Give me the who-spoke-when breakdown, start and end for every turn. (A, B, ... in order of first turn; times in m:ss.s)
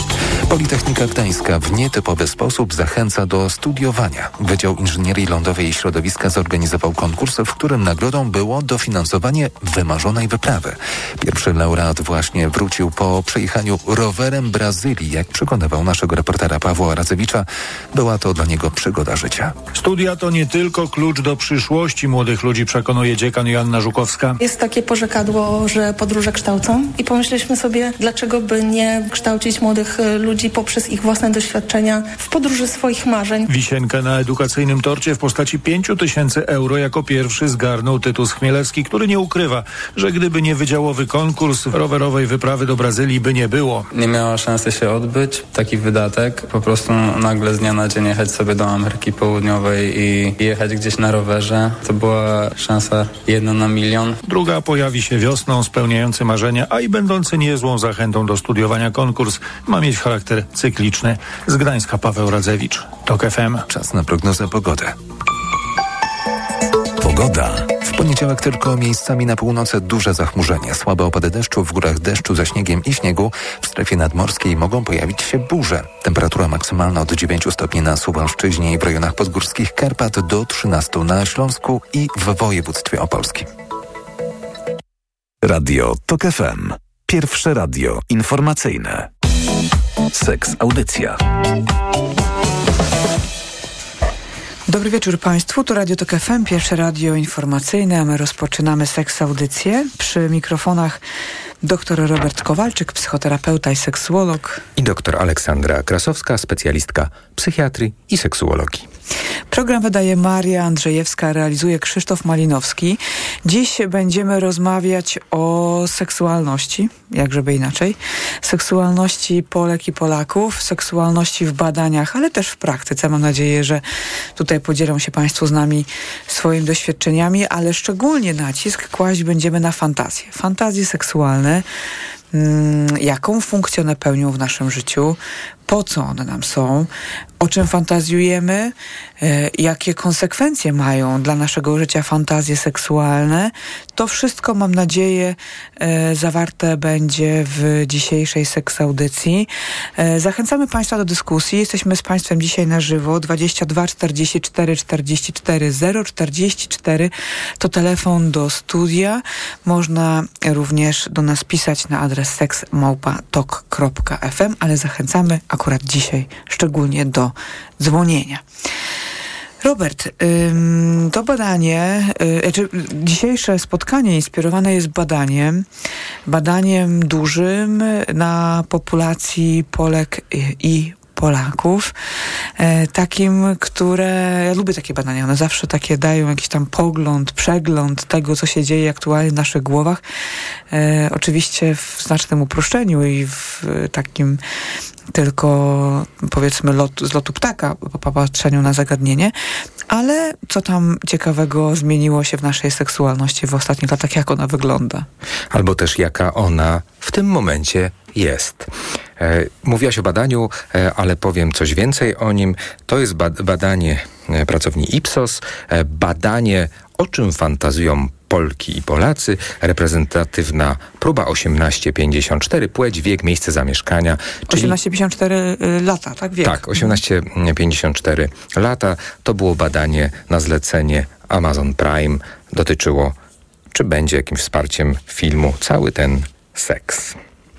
0:00.5-0:19.6 A
0:19.7-0:24.4 B
0:24.4-0:33.4 C
0:33.5-0:43.9 B
0:43.9-0:54.2 D
0:54.2-1:03.6 B
1:03.7-1:04.9 A
1:07.0-1:07.8 E
1:07.8-1:23.5 A
1:25.4-1:29.1 E
1:30.1-1:31.2 E
1:34.7-1:41.0 F
1:41.6-1:44.6 F
1:44.8-1:48.9 G
1:49.5-2:03.8 F
2:04.4-2:11.6 F
2:12.3-2:48.4 F
2:49.6-2:55.6 F
2:56.2-3:01.9 F
3:02.6-3:10.0 F
3:10.7-3:14.4 F
3:15.1-3:19.3 F
3:19.9-3:25.1 F
3:25.5-3:44.8 G
3:44.5-3:47.0 F
3:46.4-3:53.2 G
3:53.7-3:57.2 G